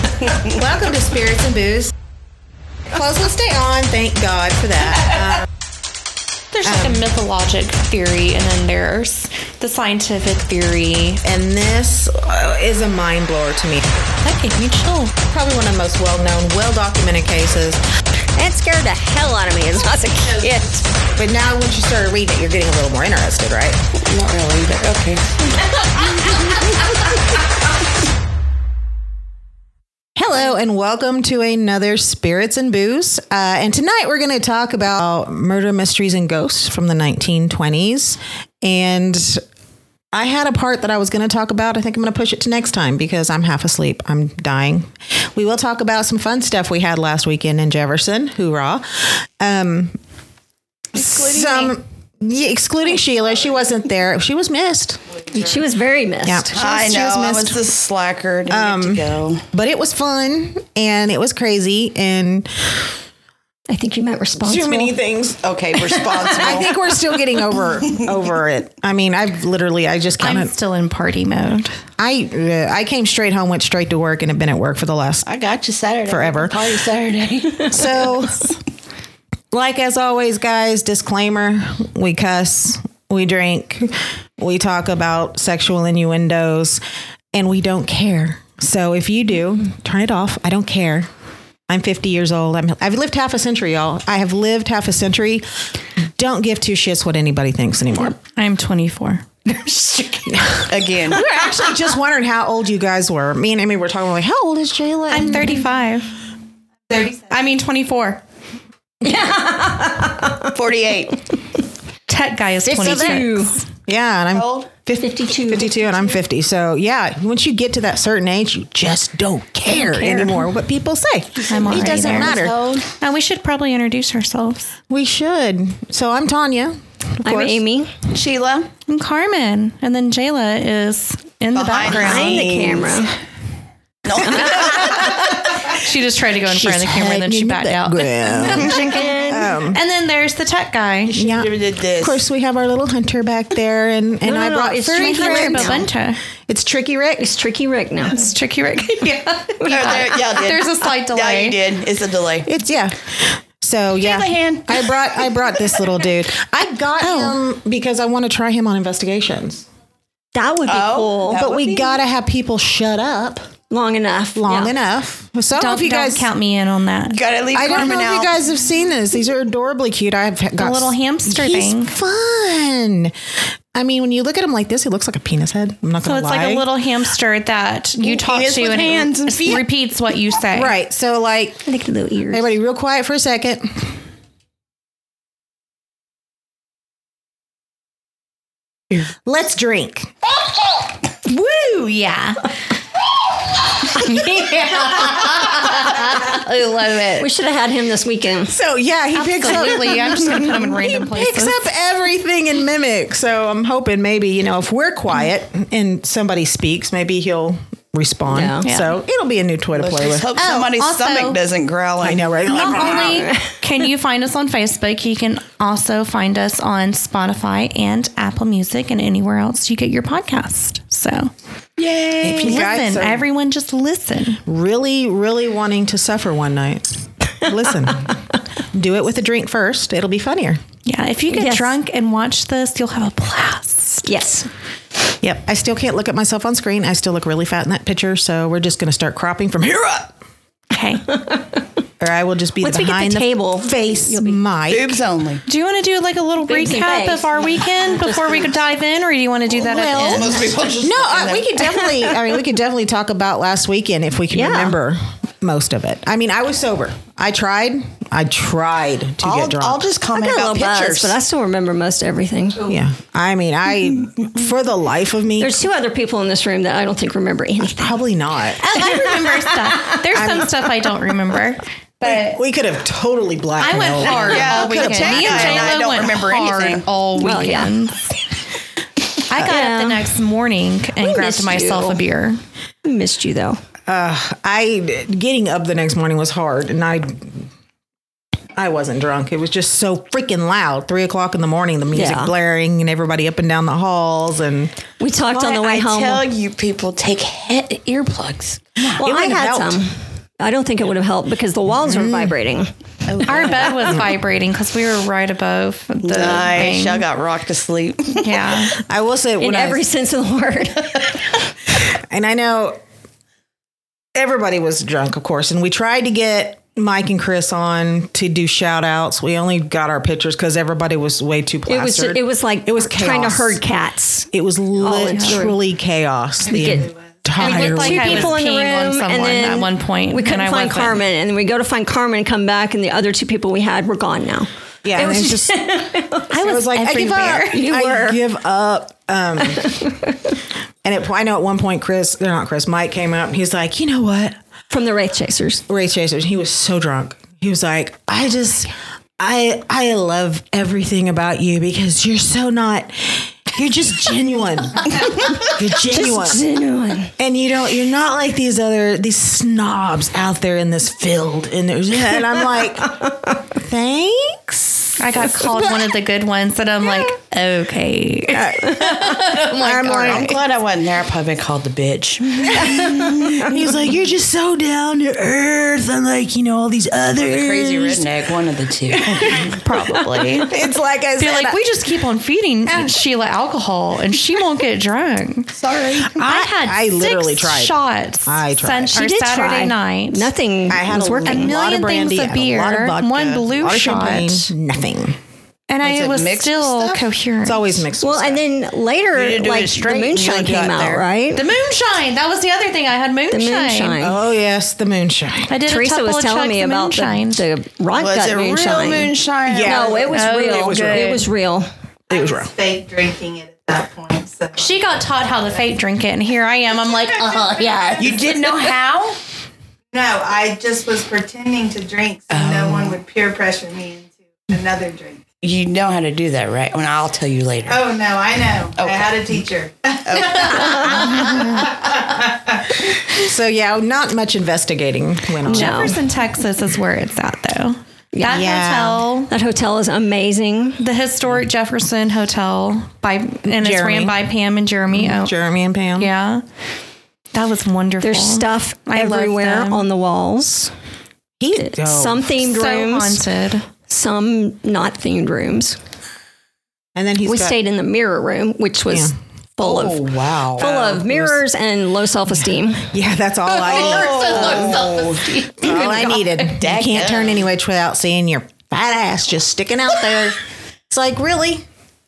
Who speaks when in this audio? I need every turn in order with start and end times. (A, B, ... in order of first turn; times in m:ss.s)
0:00.3-0:01.9 A
0:02.9-0:05.4 A
0:06.5-0:11.2 B
0:06.6-0:07.0 A
0:11.2-0:13.9 A
0:14.2-0:15.1 B
0:15.2-0:17.8 A
0:18.4-0:20.9 C
0:21.1-0:23.8 A
0:23.9-0:25.3 D
0:30.2-0:39.4 A
0:40.1-0:50.0 A
0:50.9-0:51.7 D
0:51.0-0:55.0 A
0:55.3-0:56.5 C
0:56.2-0:57.6 A
0:56.5-0:59.4 D
0:58.5-1:02.9 A
1:03.7-1:04.9 C
1:04.4-1:05.4 A
1:05.4-1:06.7 D
1:06.3-1:10.5 A
1:10.2-1:11.8 B
1:12.0-1:15.3 A
1:15.2-1:17.8 D
1:16.1-1:16.6 A
1:17.7-1:18.5 A
1:19.5-1:26.8 A
1:27.3-1:31.1 A
1:31.7-1:38.2 A
1:38.3-1:39.2 B
1:39.5-1:40.3 C
1:40.2-1:45.6 A
1:40.7-1:41.2 D
1:45.1-1:46.1 B
1:46.9-1:47.3 E
1:47.3-1:48.2 B
1:49.0-1:50.5 C
1:50.5-1:51.2 D
1:52.1-1:53.6 B
1:52.7-1:53.2 A
1:52.7-1:53.6 C
1:53.8-2:02.5 A
1:54.3-1:54.7 D
1:55.0-1:55.8 C
1:59.7-2:00.5 B
2:01.4-2:02.9 D
2:01.5-2:02.4 B
2:03.0-2:04.7 B
2:04.9-2:07.6 A
2:07.2-2:07.9 C
2:08.1-2:08.7 D
2:08.9-2:12.5 B
2:11.5-2:13.1 D
2:11.9-2:13.1 C
2:14.0-2:15.3 D
2:14.2-2:15.1 C
2:15.7-2:19.1 B
2:16.4-2:19.8 A
2:18.4-2:19.5 C
2:19.7-2:21.2 B
2:21.1-2:22.2 D
2:21.1-2:27.3 A
2:24.2-2:25.9 C
2:24.8-2:26.2 B
2:27.2-2:28.3 C
2:28.1-2:31.6 B
2:29.6-2:30.1 C
2:29.6-2:32.5 D
2:32.4-2:39.6 A
2:34.0-2:34.9 D
2:37.0-2:37.4 B
2:40.3-2:41.4 C
2:40.6-2:42.0 D
2:41.3-2:43.5 A
2:43.7-2:44.7 C
2:44.3-2:46.3 A
2:45.6-2:47.2 B
2:47.1-2:48.4 D
2:47.5-2:53.2 A
2:50.6-2:51.9 B
2:53.7-2:56.6 A
2:56.0-3:00.7 B
2:58.0-2:59.6 D
3:00.5-3:01.7 A
3:01.6-3:02.5 C
3:02.3-3:03.8 A
3:08.9-3:10.1 A
3:11.2-3:12.5 B
3:13.8-3:17.3 B
3:17.2-3:18.6 C
3:18.5-3:30.7 A
3:19.1-3:21.7 B
3:28.3-3:28.6 C
3:28.6-3:29.0 B
3:29.7-3:32.5 D
3:30.4-3:31.4 B
3:32.0-3:33.3 A
3:32.5-3:41.3 B
3:32.5-3:33.6 C
3:41.8-3:42.6 D
3:42.2-3:43.3 A
3:42.4-3:44.4 B
3:44.4-3:46.9 A
3:47.4-3:48.2 A
3:48.7-3:50.6 A
3:50.8-3:54.0 B
3:51.3-3:51.7 C
3:54.0-3:54.5 C
3:55.2-4:00.1 A
4:00.7-4:01.0 B
4:01.1-4:01.5 C
4:02.0-4:05.0 A
4:02.6-4:04.4 C
4:04.7-4:05.4 D
4:05.4-4:10.4 B
4:06.4-4:08.5 C
4:09.5-4:11.5 D
4:09.7-4:19.9 A
4:14.3-4:14.7 C
4:19.2-4:21.2 D
4:20.1-4:22.7 C
4:22.6-4:25.6 A
4:25.4-4:28.0 C
4:27.7-4:28.6 A
4:28.6-4:32.4 B
4:28.7-4:29.9 C
4:30.1-4:30.6 A
4:32.0-4:35.7 A
4:33.6-4:38.0 B
4:34.0-4:36.8 D
4:37.2-4:37.7 C
4:39.3-4:42.4 B
4:39.4-4:40.1 C
4:41.0-4:42.0 C
4:42.8-4:43.6 C
4:43.8-4:47.5 A
4:48.6-4:54.7 A
4:51.9-4:52.3 C
4:55.0-4:56.3 C
4:55.3-4:59.0 D
4:59.0-5:02.7 C
4:59.0-4:59.8 A
5:01.8-5:02.4 A
5:03.1-5:03.9 D
5:03.2-5:07.0 B
5:06.0-5:08.5 D
5:08.2-5:08.8 B
5:08.6-5:09.8 A
5:09.4-5:11.1 C
5:11.8-5:12.8 A
5:14.1-5:23.6 A
5:21.7-5:25.6 C
5:24.3-5:28.4 A
5:25.1-5:25.4 B
5:26.4-5:27.4 E
5:26.5-5:36.6 C
5:27.4-5:31.0 B
5:34.8-5:35.6 A
5:36.3-5:37.6 B
5:36.3-5:39.7 A
5:37.5-5:38.2 C
5:39.5-5:40.1 C
5:40.8-5:44.4 A
5:44.7-5:45.6 C
5:45.7-5:56.4 A
5:55.8-5:57.1 C
5:57.2-6:02.9 A
6:03.5-6:05.0 A
6:05.0-6:10.4 B
6:08.3-6:10.5 A
6:10.0-6:13.4 D
6:12.4-6:18.0 A
6:17.3-6:19.5 D
6:19.2-6:20.5 B
6:19.7-6:20.4 C
6:20.5-6:21.6 A
6:21.2-6:25.5 B
6:22.6-6:22.9 A
6:25.5-6:26.1 D
6:26.1-6:27.7 A
6:26.1-6:30.3 B
6:28.2-6:29.0 A
6:28.9-6:31.5 C
6:30.7-6:35.2 A
6:31.2-6:34.5 B
6:35.7-6:37.8 B
6:35.8-6:37.0 D
6:37.4-6:38.4 A
6:38.0-6:41.4 C
6:39.1-6:41.0 D
6:41.3-6:44.0 B
6:43.3-6:44.2 C
6:44.0-6:45.5 A
6:45.5-6:47.4 B
6:45.6-6:51.7 C
6:47.9-6:50.2 D
6:49.5-6:51.1 A
6:50.1-6:51.3 B
6:52.1-6:54.8 E
6:54.6-6:58.1 B
6:57.1-6:57.9 E
6:58.0-6:59.2 D
6:59.9-7:05.2 E
7:02.3-7:03.0 D
7:05.4-7:07.8 D
7:07.7-7:12.8 E
7:08.8-7:09.2 D
7:10.0-7:11.5 D
7:13.1-7:16.0 A
7:15.4-7:19.3 B
7:15.5-7:16.0 C
7:18.1-7:18.5 C
7:18.2-7:19.0 A
7:19.3-7:20.8 C
7:20.8-7:25.3 B
7:23.6-7:24.2 A
7:24.9-7:26.1 A
7:26.0-7:26.4 B
7:27.3-7:29.8 B
7:28.0-7:30.7 C
7:31.4-7:32.3 A
7:31.6-7:33.2 C
7:32.4-7:33.7 B
7:33.8-7:35.8 C
7:36.9-7:37.6 A
7:37.2-7:40.0 C
7:39.6-7:41.4 D
7:40.6-7:42.9 C
7:40.7-7:41.3 A
7:42.4-7:44.4 A
7:43.5-7:46.5 B
7:43.6-7:45.3 D
7:44.4-7:44.8 C
7:45.6-7:51.6 A
7:46.5-7:47.4 D